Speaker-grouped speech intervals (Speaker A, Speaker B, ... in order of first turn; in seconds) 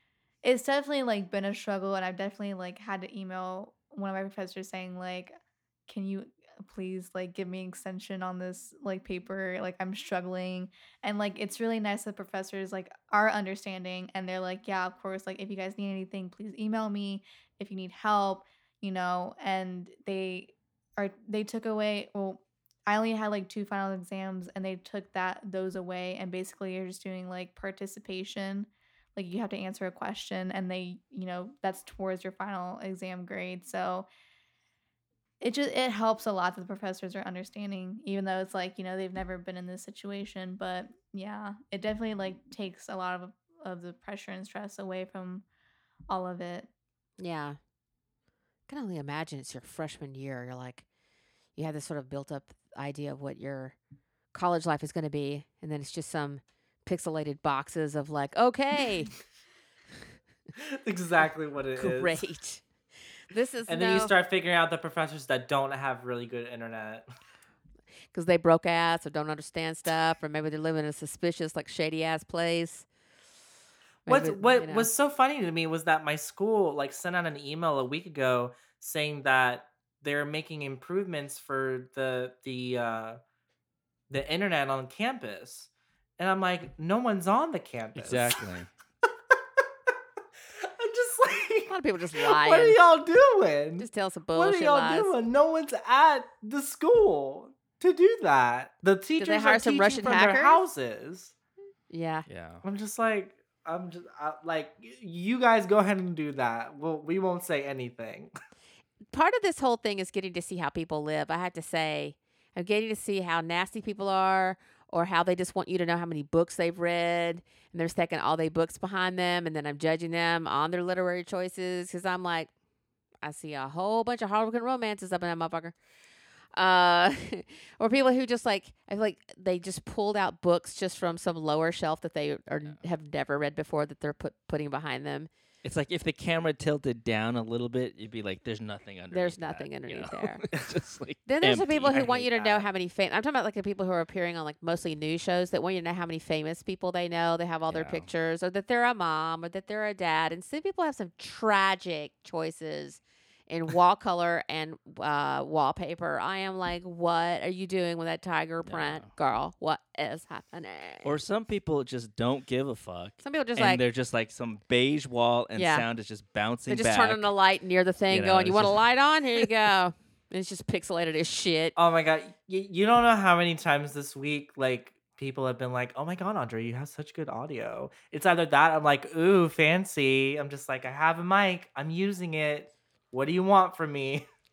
Speaker A: 0.4-34.1, 35.4-45.5, 46.1-46.7
Speaker B: 47.2-47.6, 48.7-50.9, 51.6-53.8, 54.3-59.1, 61.8-62.7, 63.3-64.1, 68.1-72.9, 74.1-74.9, 91.7-92.8, 93.8-95.1, 99.2-100.6, 101.9-102.3, 109.1-122.5, 123.2-125.8, 126.5-135.3, 139.1-140.4, 141.3-161.1, 163.2-163.8, 165.6-165.8, 166.7-171.8
Speaker C: 60.6-62.2, 63.7-67.1, 74.1-83.2, 84.1-88.4, 90.6-101.3, 102.6-108.3, 141.9-142.7, 171.8-184.3
Speaker D: 88.0-88.7, 102.3-102.6, 135.6-142.1, 147.7-148.1, 158.6-159.1, 161.0-167.3, 168.1-168.8